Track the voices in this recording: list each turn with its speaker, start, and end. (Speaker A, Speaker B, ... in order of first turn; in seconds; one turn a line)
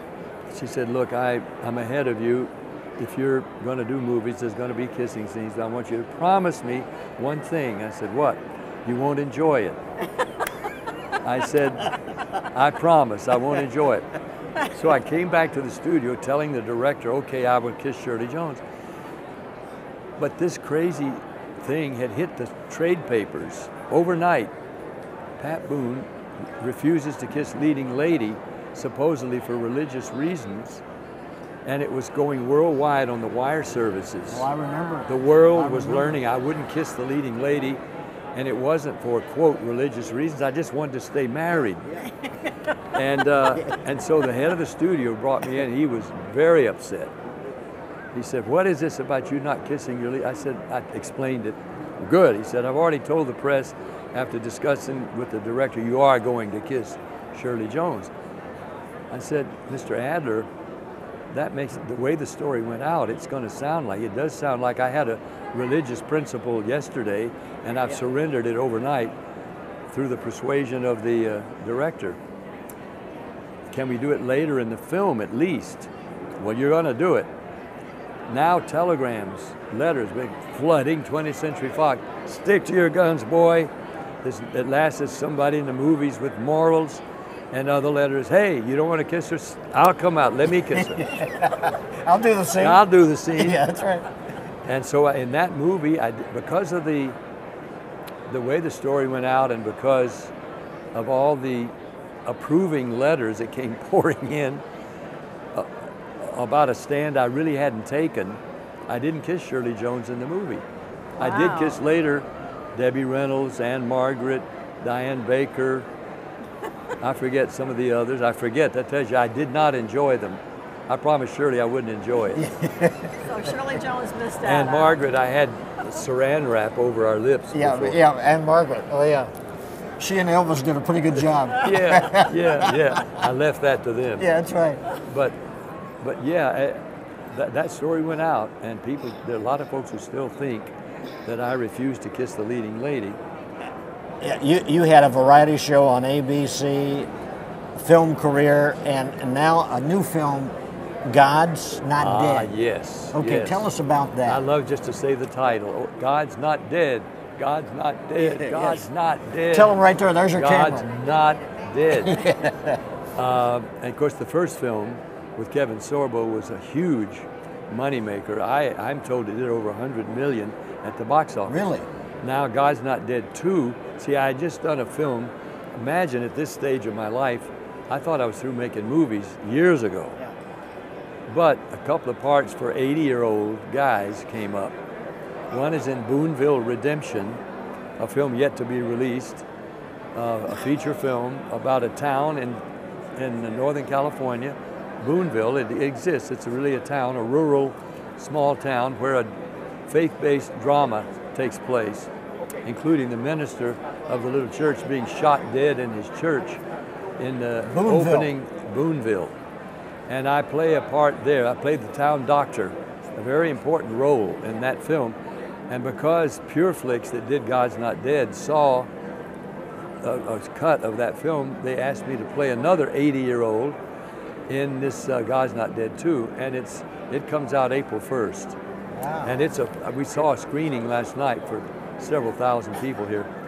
Speaker A: 0.5-9.8
Speaker A: 11.2-11.9
Speaker A: 12.5-14.1
Speaker A: 14.6-18.6
Speaker A: 20.2-24.5
Speaker A: 25.4-30.8
Speaker A: 31.7-34.5
Speaker B: 34.3-36.2
Speaker A: 35.1-37.8
Speaker A: 38.4-41.9
Speaker A: 42.9-47.1
Speaker A: 48.1-58.1
Speaker A: 59.1-60.5
Speaker A: 61.3-69.1
Speaker A: 69.9-72.2
Speaker A: 73.7-77.3
Speaker A: 78.3-83.7
Speaker A: 84.2-87.0
Speaker A: 87.5-91.1
Speaker B: 90.7-94.1
Speaker A: 92.6-93.6
Speaker A: 94.7-97.2
Speaker A: 98.3-100.3
Speaker A: 100.9-101.7
Speaker A: 102.3-104.6
Speaker A: 105.5-110.6
Speaker A: 111.2-115.9
Speaker C: 111.2-111.8
Speaker A: 117.0-122.5
Speaker B: 122.3-123.3
Speaker C: 123.2-125.0
Speaker A: 124.4-128.0
Speaker B: 127.5-129.3
Speaker B: 130.0-133.0
Speaker A: 131.6-134.3
Speaker B: 134.2-134.8
Speaker A: 135.1-135.4
Speaker A: 136.0-140.7
Speaker A: 141.3-143.2
Speaker B: 144.2-147.1
Speaker B: 147.8-150.5
Speaker B: 151.1-152.5
Speaker A: 152.0-153.7
Speaker B: 153.1-154.4
Speaker A: 154.3-159.8
Speaker B: 158.2-158.9
Speaker B: 159.5-160.8
Speaker A: 160.3-162.3
Speaker B: 162.0-162.8
Speaker A: 163.2-171.7
Speaker B: 171.5-171.9
Speaker A: 172.2-180.2
Speaker A: 181.3-184.8
Speaker A: 185.5-187.4
Speaker A: 188.0-189.4
Speaker A: 190.2-192.6
Speaker A: 193.2-199.3
Speaker A: 199.9-202.1
Speaker A: 202.6-206.6
Speaker A: 207.2-209.3
Speaker B: 207.7-208.3
Speaker A: 210.1-215.2
Speaker A: 215.7-218.9
Speaker A: 220.0-223.8
Speaker A: 224.5-228.6
Speaker B: 228.9-229.4
Speaker A: 229.2-233.3